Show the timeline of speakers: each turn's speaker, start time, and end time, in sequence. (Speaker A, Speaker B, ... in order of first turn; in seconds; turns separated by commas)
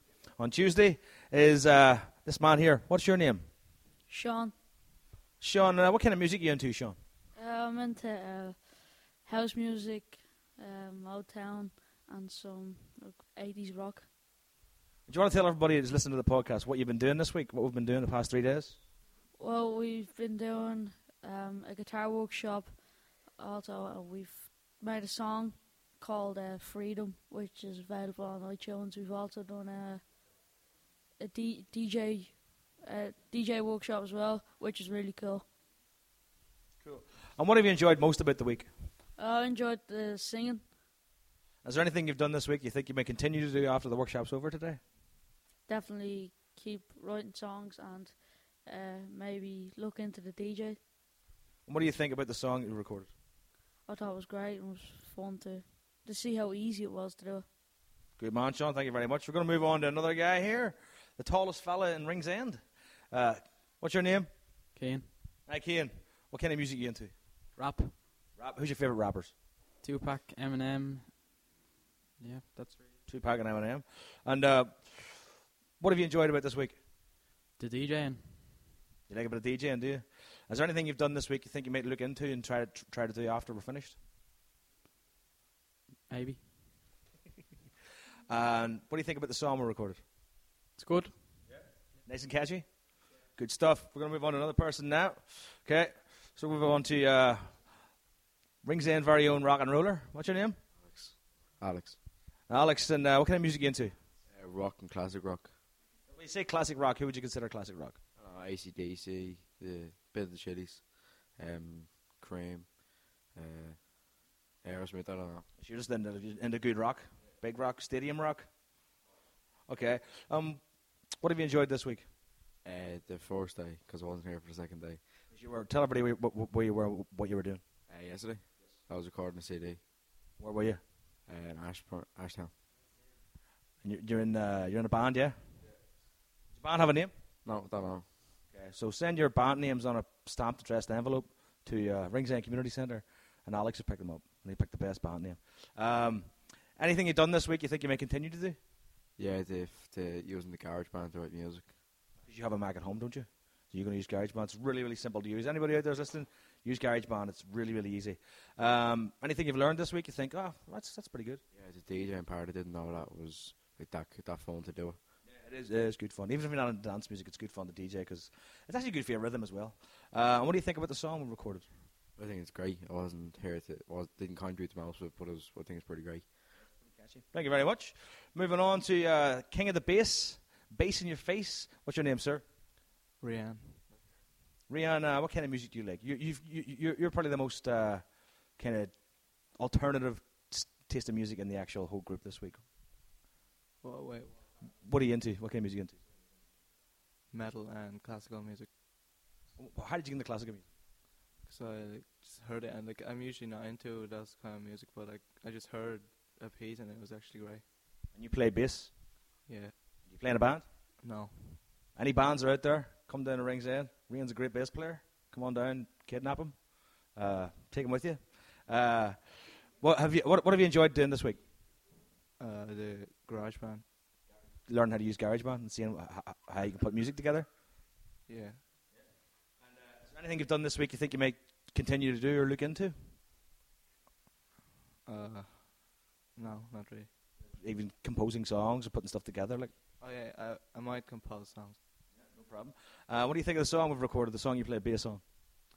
Speaker A: 0.4-3.4, Speaker B: 4.1-4.5, Speaker A: 5.4-7.0, Speaker B: 7.3-14.1, Speaker A: 15.1-18.8, Speaker B: 19.4-22.8, Speaker B: 23.4-30.0, Speaker B: 31.2-35.5, Speaker A: 36.8-38.7, Speaker B: 39.2-40.7, Speaker A: 41.6-44.8, Speaker B: 45.7-50.8, Speaker A: 51.6-53.1, Speaker B: 53.8-57.5, Speaker A: 58.2-64.3, Speaker C: 64.7-65.1, Speaker A: 65.5-67.4, Speaker C: 67.5-67.9, Speaker A: 68.3-69.4, Speaker C: 69.8-71.1, Speaker C: 72.2-72.8, Speaker A: 73.1-76.8, Speaker C: 77.6-78.4, Speaker A: 79.1-84.0, Speaker C: 86.1-86.4, Speaker A: 88.3-90.0, Speaker C: 90.8-91.2, Speaker A: 91.5-92.8, Speaker A: 93.3-97.9, Speaker A: 98.6-100.6, Speaker D: 100.8-102.0, Speaker A: 102.5-104.0, Speaker D: 104.3-105.5, Speaker A: 106.1-108.0, Speaker D: 108.2-115.5, Speaker A: 115.6-118.5, Speaker A: 119.7-122.1, Speaker D: 122.6-125.0, Speaker A: 125.3-127.6, Speaker D: 127.9-129.8, Speaker A: 130.4-130.9, Speaker D: 131.3-132.5, Speaker A: 133.8-135.3, Speaker A: 136.5-137.1, Speaker D: 137.4-138.1, Speaker A: 138.5-148.6, Speaker D: 149.2-151.8, Speaker A: 152.2-161.4, Speaker D: 161.5-165.0, Speaker A: 165.2-171.7, Speaker D: 172.2-176.4, Speaker A: 176.6-182.4, Speaker E: 183.2-184.1, Speaker A: 184.7-192.6, Speaker E: 193.8-194.5, Speaker A: 194.8-196.0, Speaker E: 197.3-198.7, Speaker A: 199.6-200.6, Speaker E: 201.4-207.6, Speaker A: 208.1-208.9, Speaker E: 209.5-209.8, Speaker A: 210.0-210.7, Speaker E: 211.0-211.6, Speaker A: 211.9-219.2, Speaker A: 219.8-221.4, Speaker E: 222.4-223.9, Speaker A: 224.6-227.5, Speaker E: 228.3-228.6, Speaker A: 229.6-232.9, Speaker E: 235.1-237.1, Speaker A: 237.4-239.7, Speaker E: 240.0-241.8, Speaker A: 242.1-245.2